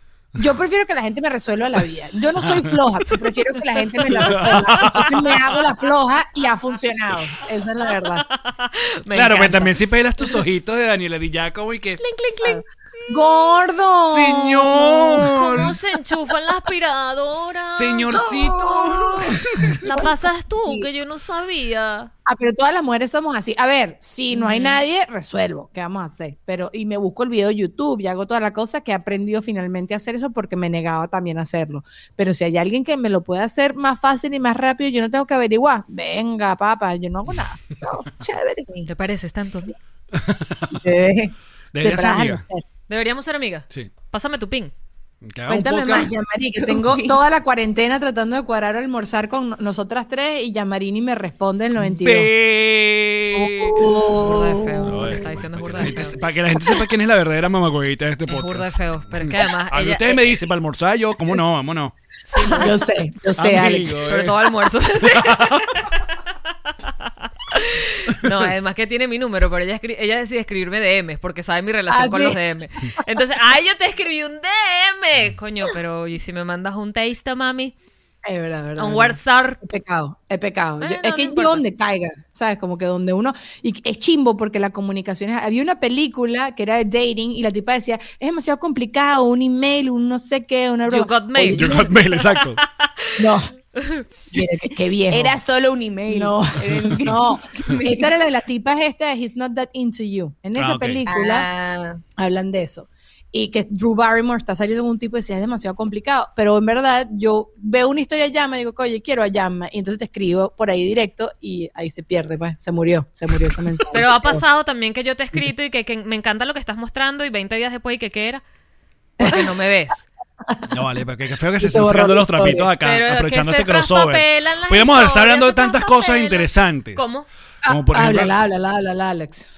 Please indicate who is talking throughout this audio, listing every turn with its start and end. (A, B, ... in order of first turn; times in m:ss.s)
0:00.4-0:08.2 A
0:02.4-0:02.8 B
0:04.1-0:05.4 B
0:04.8-0:05.4 C
0:08.0-0:09.8 C
0:09.1-0:12.0 B
0:12.0-0:12.6 C
0:13.1-0:15.7 A
0:14.1-0:15.8 B
0:15.2-0:18.1 C
0:17.8-0:19.8 B
0:18.1-0:20.1 A
0:19.8-0:22.1 C
0:22.2-0:38.7 A
0:24.3-0:24.8 C
0:38.9-0:39.8 C
0:40.1-0:40.8 B
0:40.7-0:42.6 A
0:41.7-0:42.4 B
0:42.9-0:44.7 C
0:45.2-0:46.1 B
0:45.5-0:52.3 A
0:46.6-0:47.2 D
0:52.0-0:53.9 B
0:53.3-0:55.0 D
0:54.2-0:56.2 C
0:54.9-1:01.9 B
0:58.3-1:00.3 C
1:02.3-1:02.7 C
1:02.4-1:04.0 A
1:03.4-1:04.5 B
1:04.0-1:06.0 C
1:05.0-1:05.7 B
1:06.8-1:17.7 C
1:11.9-1:12.4 A
1:18.2-1:31.9 A
1:18.8-1:19.6 C
1:20.8-1:21.6 C
1:30.9-1:33.2 C
1:31.4-1:32.6 B
1:33.2-1:33.5 A
1:33.8-1:34.0 C
1:34.3-1:35.4 A
1:35.1-1:38.1 D
1:36.1-1:41.5 A
1:40.6-1:41.0 B
1:41.0-1:42.0 D
1:42.2-1:54.4 A
1:53.9-1:58.4 C
1:59.2-1:59.5 A
1:59.2-2:00.0 C
2:00.7-2:07.0 B
2:01.6-2:02.7 A
2:02.8-2:07.3 C
2:07.6-2:08.4 B
2:07.6-2:09.5 A